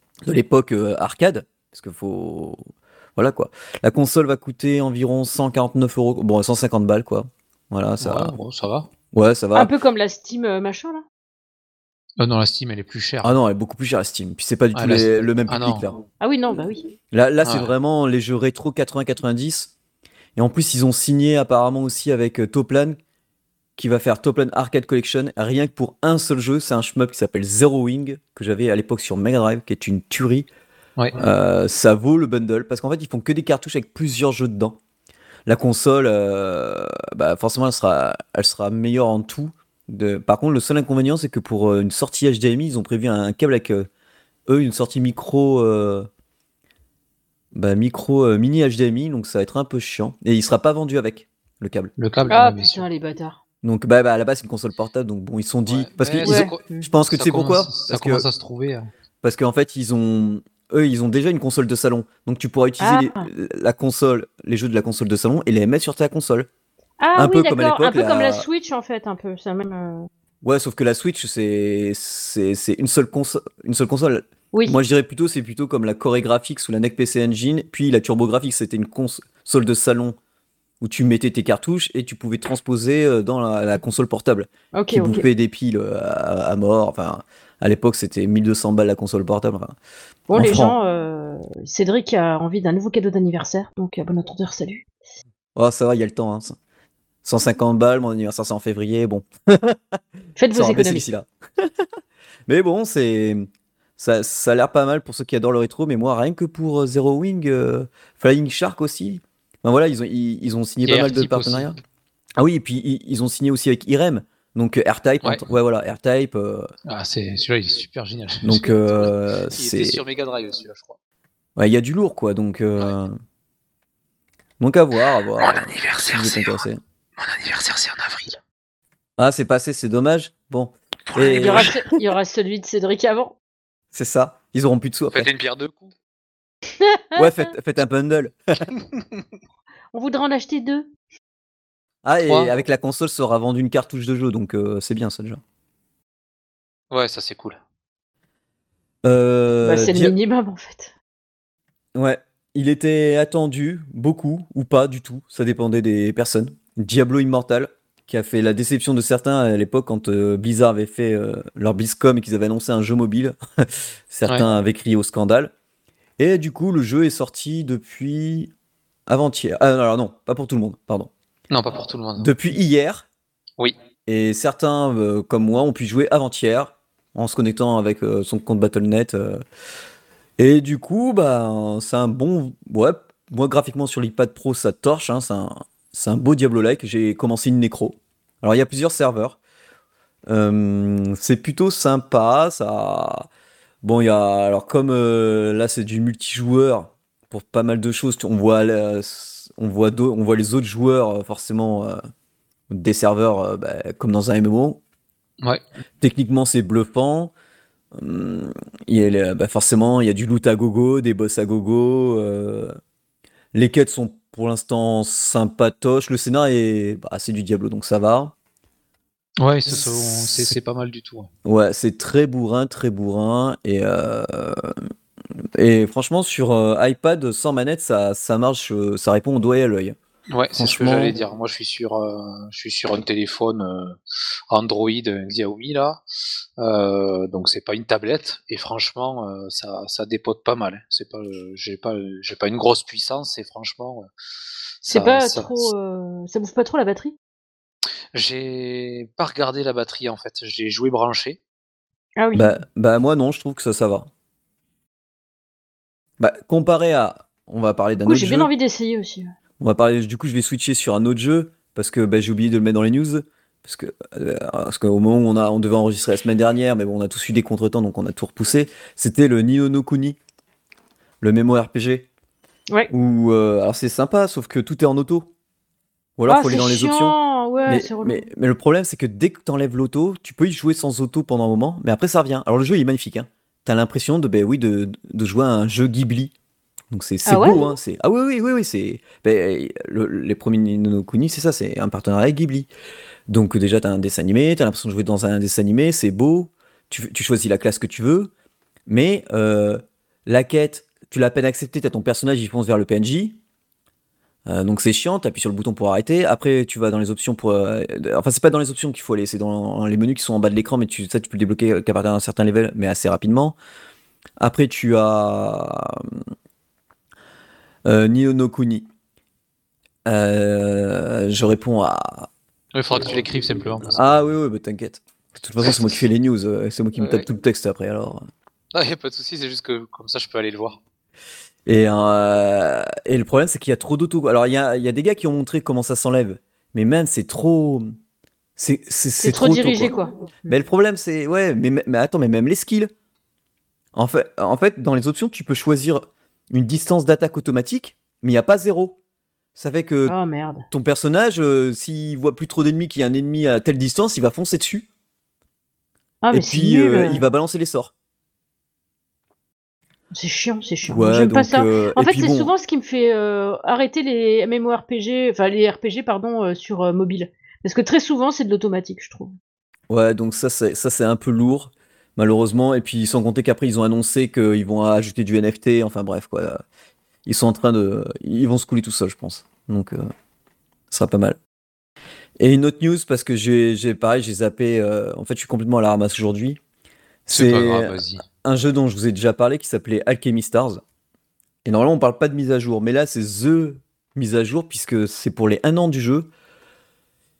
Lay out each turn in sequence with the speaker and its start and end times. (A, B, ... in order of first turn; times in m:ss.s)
0:00.2-0:02.6 A
0:03.2-0:08.3 A
0:08.0-0:08.9 B
0:09.1-0:09.7 A
0:09.5-0:11.0 C
0:12.2-0:13.4 B
0:13.2-0:16.0 A
0:14.7-0:15.9 B
0:16.2-0:16.8 C
0:17.1-0:19.7 A
0:17.4-0:17.7 B
0:20.4-0:23.0 A
0:23.8-0:30.5 A
0:31.2-0:34.8 A
0:35.4-0:43.9 A
0:44.5-0:46.1 A
0:47.5-0:51.9 A
0:52.0-0:52.8 B
0:52.3-0:53.4 C
0:53.6-0:58.2 A
0:55.7-0:58.9 B
0:56.2-0:56.9 C
0:59.2-1:06.5 A
1:02.8-1:03.3 C
1:07.0-1:10.1 C
1:07.1-1:08.4 A
1:10.4-1:20.2 A
1:14.5-1:14.8 C
1:20.8-1:29.8 A
1:24.7-1:25.2 C
1:30.3-1:34.8 C
1:30.3-1:30.8 A
1:35.6-1:36.6 A
1:37.2-1:40.0 A
1:40.4-1:41.1 C
1:40.5-1:41.8 A
1:42.5-1:51.7 A
1:50.8-1:51.7 B
1:52.4-1:56.7 A
1:56.9-2:01.0 B
1:58.4-2:00.0 A
2:01.6-2:03.2 A
2:04.6-2:06.8 A
2:05.4-2:06.6 B
2:07.2-2:08.4 B
2:09.2-2:12.0 A
2:11.1-2:11.7 B
2:11.2-2:13.4 C
2:13.9-2:15.3 A
2:15.1-2:15.9 B
2:16.8-2:17.3 C
2:17.2-2:18.3 A
2:18.7-2:19.2 B
2:19.9-2:20.9 C
2:22.0-2:25.4 A
2:22.2-2:22.6 B
2:26.9-2:27.6 B
2:29.0-2:30.1 A
2:29.6-2:30.9 C
2:31.9-2:45.5 A
2:46.2-2:48.5 A
2:49.1-2:51.1 A
2:51.5-2:52.3 B
2:52.2-2:53.0 A
2:54.0-2:59.4 A
3:00.4-3:09.4 A
3:10.3-3:13.3 A
3:13.8-3:22.0 A
3:22.7-3:24.8 A
3:26.0-3:27.3 A
3:27.9-3:32.8 A
3:33.5-3:38.3 A
3:39.4-3:41.3 B
3:39.7-3:40.5 A
3:41.4-3:44.8 A
3:45.5-3:50.0 A
3:50.3-3:54.0 B
3:50.5-3:51.2 A
3:54.5-3:56.0 B
3:56.6-4:04.1 B
4:04.8-4:05.7 B
4:04.9-4:07.1 C
4:08.1-4:11.4 B
4:12.2-4:12.5 C
4:12.3-4:14.1 A
4:16.2-4:18.5 A
4:18.0-4:19.3 C
4:19.6-4:30.2 A
4:31.2-4:32.1 A
4:32.9-4:35.3 A
4:36.2-4:37.1 A
4:36.3-4:38.2 C
4:37.7-4:46.3 A
4:46.9-4:52.7 A
4:47.2-4:47.6 C
4:53.3-4:58.3 A
4:58.9-5:03.4 A
5:04.5-5:13.6 A
5:14.4-5:16.2 A
5:17.8-5:18.9 A
5:20.0-5:22.3 A
5:22.7-5:24.2 B
5:23.9-5:28.2 A
5:27.0-5:27.2 B
5:28.7-5:30.8 B
5:31.6-5:37.9 A
5:38.6-5:39.9 A
5:39.2-5:40.6 C
5:40.5-5:42.9 A
5:43.9-5:49.0 A
5:49.6-5:50.2 A
5:50.0-5:50.6 C
5:50.7-5:54.8 A
5:56.2-5:57.2 C
5:56.3-5:57.9 A
6:00.1-6:09.3 C
6:00.8-6:02.5 A
6:09.9-6:16.6 A
6:17.2-6:20.1 A
6:20.9-6:21.4 A
6:22.4-6:26.6 A
6:27.2-6:30.8 A
6:27.3-6:28.2 B
6:31.6-6:36.3 A